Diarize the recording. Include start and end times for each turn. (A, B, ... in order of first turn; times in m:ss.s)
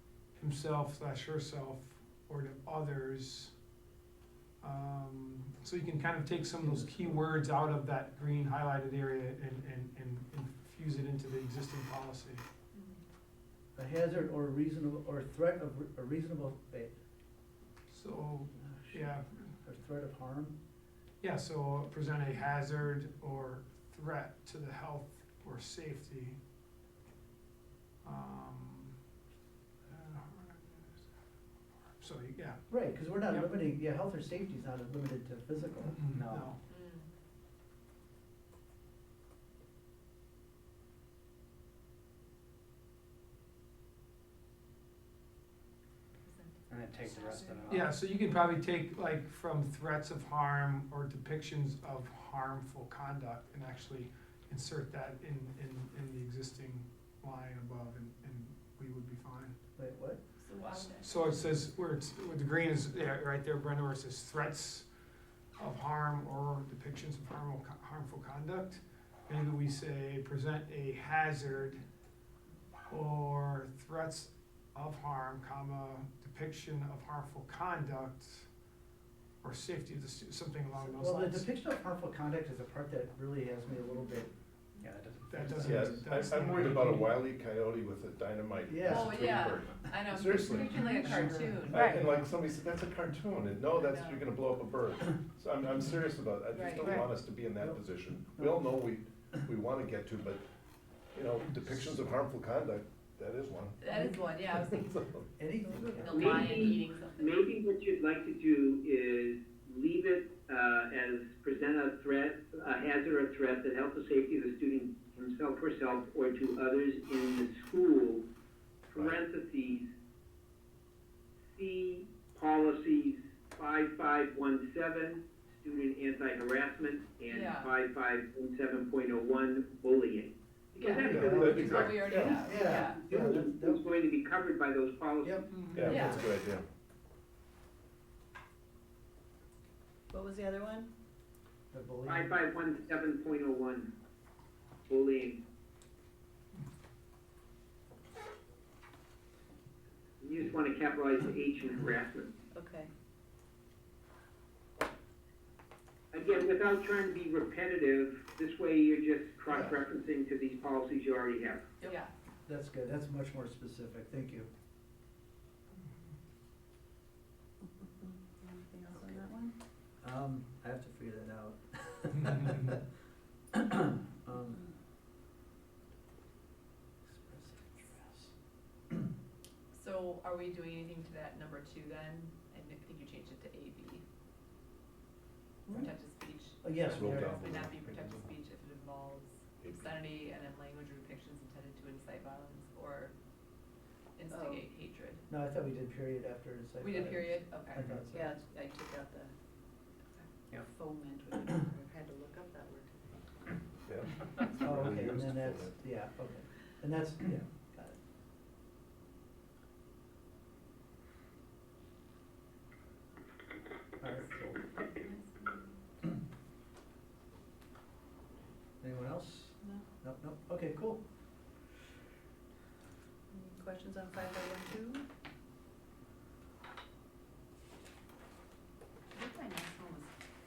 0:00.3-0:03.5 A
0:04.6-0:12.4 A
0:06.6-0:07.2 B
0:12.7-0:13.0 C
0:13.8-0:16.9 B
0:17.9-0:19.4 A
0:18.6-0:19.0 B
0:19.6-0:20.5 B
0:21.2-0:26.4 A
0:28.0-0:29.0 A
0:29.9-0:31.1 A
0:31.9-0:32.6 A
0:32.7-0:36.5 B
0:36.0-0:36.6 A
0:36.7-0:37.0 C
0:46.2-0:47.8 C
0:46.7-0:47.8 D
0:47.7-0:59.6 A
0:59.8-1:00.2 B
1:00.4-1:01.3 C
1:01.0-1:04.9 A
1:05.6-1:11.8 A
1:12.9-1:18.5 A
1:19.4-1:21.5 A
1:20.8-1:24.3 B
1:24.8-1:26.0 D
1:25.3-1:27.1 A
1:25.6-1:40.4 E
1:28.7-1:29.3 B
1:28.9-1:31.9 C
1:31.7-1:32.1 F
1:33.8-1:34.2 C
1:36.5-1:37.0 C
1:38.4-1:38.6 B
1:41.1-1:43.8 E
1:43.8-1:45.2 C
1:44.5-1:45.2 E
1:45.4-1:46.7 B
1:45.6-1:46.9 F
1:46.0-1:47.4 C
1:46.1-1:58.2 G
1:58.9-1:59.8 G
1:58.9-1:59.2 E
2:01.6-2:11.4 G
2:07.3-2:07.7 C
2:10.8-2:13.0 C
2:11.0-2:13.8 B
2:11.0-2:12.3 E
2:13.0-2:15.5 G
2:15.2-2:16.2 B
2:15.5-2:15.9 A
2:15.7-2:16.6 E
2:15.8-2:16.3 C
2:20.1-2:20.9 F
2:21.7-2:22.3 B
2:22.1-2:23.9 G
2:24.9-2:25.4 G
2:30.2-2:32.3 G
2:32.5-2:32.9 F
2:36.1-2:41.6 G
2:39.5-2:39.8 B
2:41.8-2:42.1 C
2:42.4-2:44.5 B
2:47.6-2:49.5 F
2:50.0-2:52.8 B
2:53.5-2:54.7 B
2:57.0-2:58.3 B
2:59.7-3:04.0 C
3:05.7-3:13.1 C
3:06.6-3:07.7 B
3:06.8-3:08.2 E
3:09.6-3:09.9 E
3:14.2-3:15.2 C
3:14.3-3:14.6 F
3:15.3-3:18.3 B
3:16.8-3:17.9 C
3:18.1-3:19.3 F
3:20.6-3:23.2 F
3:23.8-3:25.8 E
3:24.6-3:28.0 B
3:34.0-3:34.7 B
3:34.9-3:35.5 C
3:38.8-3:41.0 B
3:43.3-3:45.0 F
3:49.1-3:50.1 C